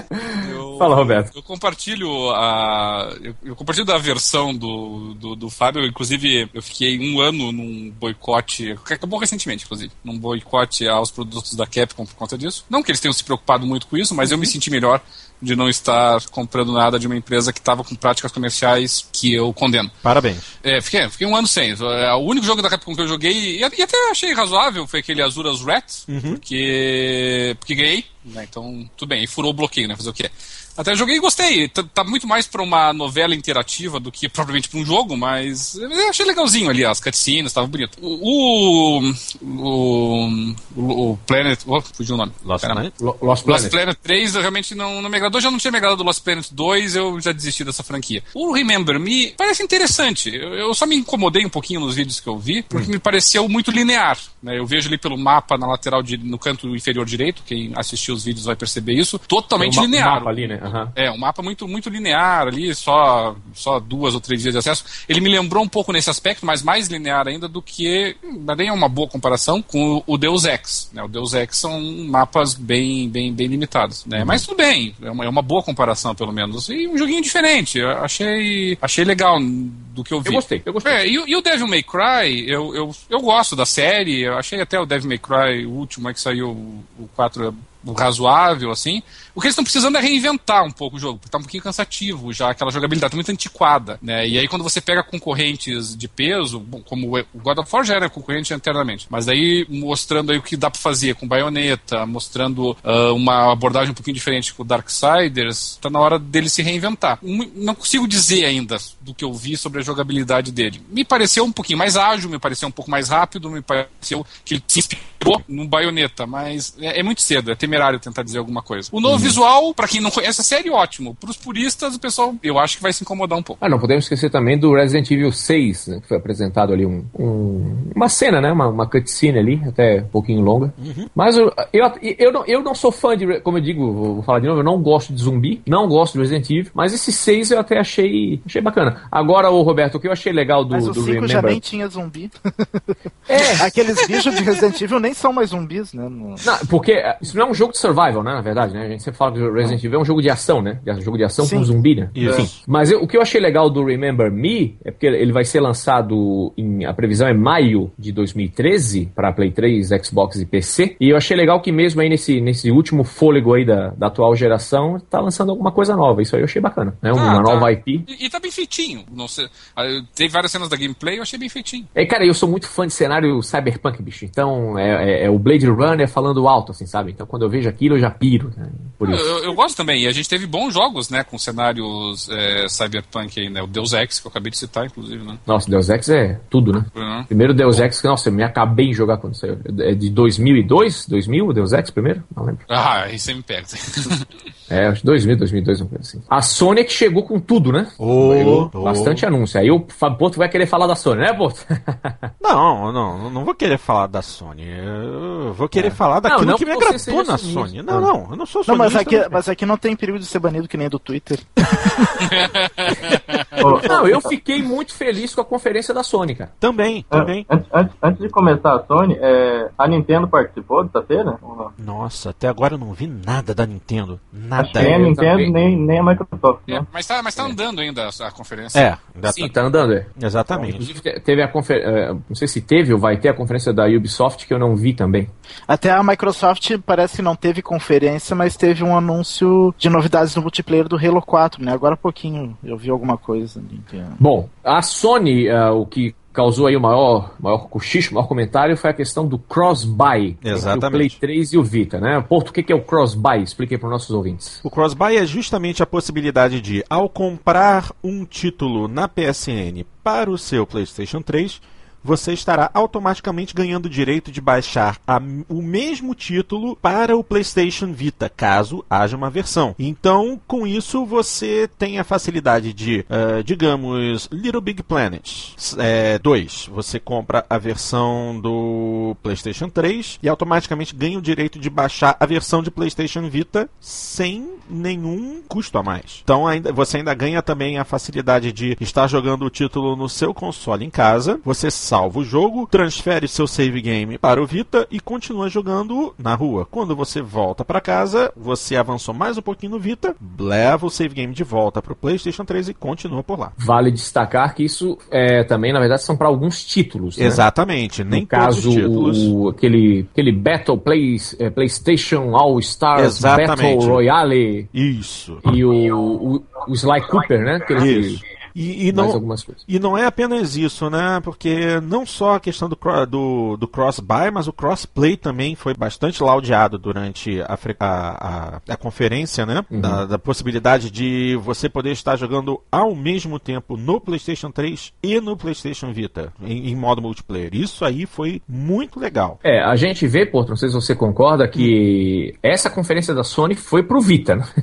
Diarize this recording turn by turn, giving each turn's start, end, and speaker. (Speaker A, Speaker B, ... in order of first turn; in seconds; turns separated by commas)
Speaker A: 0.1-1.3, Speaker B: 0.4-19.9, Speaker C: 20.0-20.5, Speaker B: 20.6-42.9, Speaker C: 26.1-26.4, Speaker C: 42.4-42.9, Speaker A: 43.0-43.8, Speaker B: 43.5-123.6, Speaker A: 59.6-60.9, Speaker A: 80.2-81.0, Speaker A: 119.1-119.3, Speaker A: 123.6-141.6, Speaker C: 130.8-131.1, Speaker D: 140.7-142.8, Speaker A: 143.3-143.7, Speaker D: 143.6-146.4, Speaker A: 146.4-168.1, Speaker D: 151.4-151.7, Speaker C: 152.2-152.6, Speaker E: 152.2-152.5, Speaker B: 167.2-171.9, Speaker A: 171.9-179.6, Speaker B: 179.0-185.4, Speaker A: 185.5-192.6, Speaker B: 186.9-187.8, Speaker B: 192.7-194.3, Speaker A: 194.7-202.3, Speaker C: 198.0-199.3, Speaker C: 202.4-209.4, Speaker A: 205.8-208.1, Speaker D: 208.7-211.4, Speaker C: 211.7-212.2, Speaker B: 212.2-213.6, Speaker E: 213.6-214.3, Speaker A: 213.8-216.5, Speaker C: 216.6-217.5, Speaker E: 217.1-221.7, Speaker C: 221.8-225.1, Speaker E: 224.6-226.9, Speaker A: 224.8-225.5, Speaker B: 226.7-228.8, Speaker C: 228.7-229.5, Speaker A: 229.2-235.3, Speaker C: 230.2-230.9, Speaker D: 235.7-244.2, Speaker A: 244.2-254.6, Speaker C: 250.4-251.2, Speaker C: 254.6-303.6, Speaker A: 303.6-307.5, Speaker C: 307.2-309.3, Speaker A: 308.1-314.7, Speaker C: 312.9-314.0, Speaker C: 314.7-315.4, Speaker A: 315.4-318.2, Speaker C: 317.7-339.4, Speaker A: 318.9-319.6, Speaker A: 329.7-330.0, Speaker A: 339.4-344.4